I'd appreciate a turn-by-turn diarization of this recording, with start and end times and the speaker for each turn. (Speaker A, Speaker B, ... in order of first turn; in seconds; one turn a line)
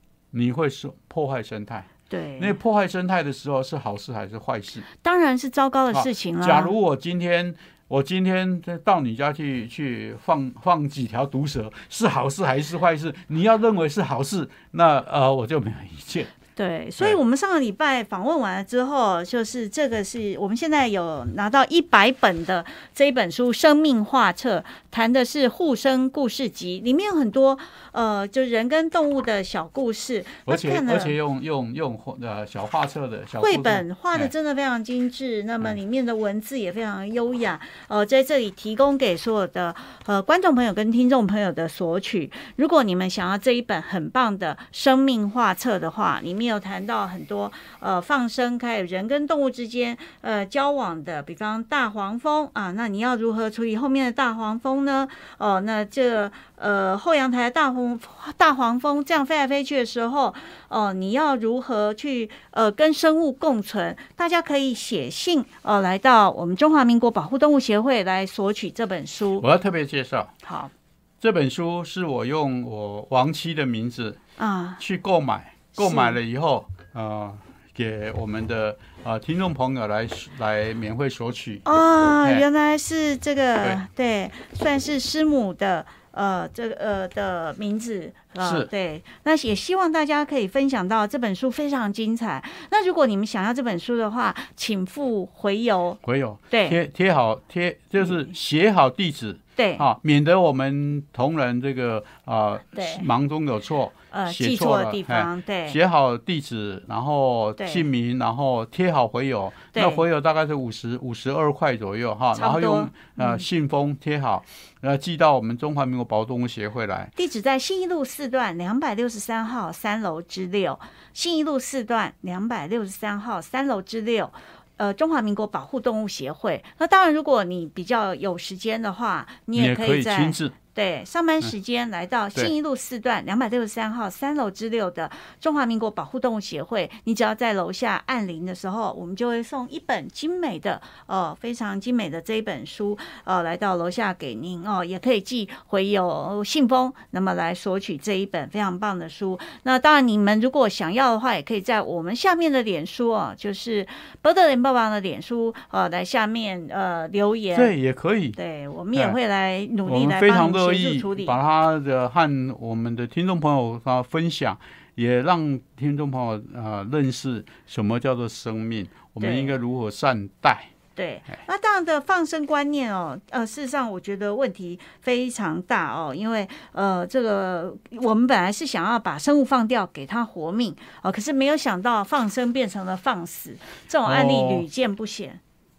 Speaker A: 0.3-1.9
Speaker B: 2.1-2.6
Speaker A: 2.4-4.8
Speaker B: 5.0-6.7
Speaker A: 5.9-16.3
Speaker B: 16.6-31.2
Speaker A: 30.5-34.3
Speaker B: 33.4-69.5
Speaker A: 69.4-70.3
Speaker B: 70.4-70.7
Speaker A: 71.2-74.2
Speaker B: 74.4-74.8
Speaker A: 74.8-81.6
Speaker B: 75.8-76.2
Speaker B: 81.7-96.8
Speaker A: 88.4-88.7
Speaker A: 96.0-117.1
Speaker B: 98.0-98.3
Speaker B: 99.6-99.8
Speaker B: 102.8-103.1
Speaker B: 104.1-105.8
Speaker B: 107.6-107.9
Speaker B: 109.7-110.0
Speaker B: 112.3-113.4
Speaker B: 117.2-157.7
Speaker A: 129.6-130.5
Speaker A: 157.5-158.4
Speaker B: 158.3-161.4
Speaker A: 159.8-170.7
Speaker B: 169.2-169.6
Speaker B: 171.0-185.4
Speaker A: 184.1-184.7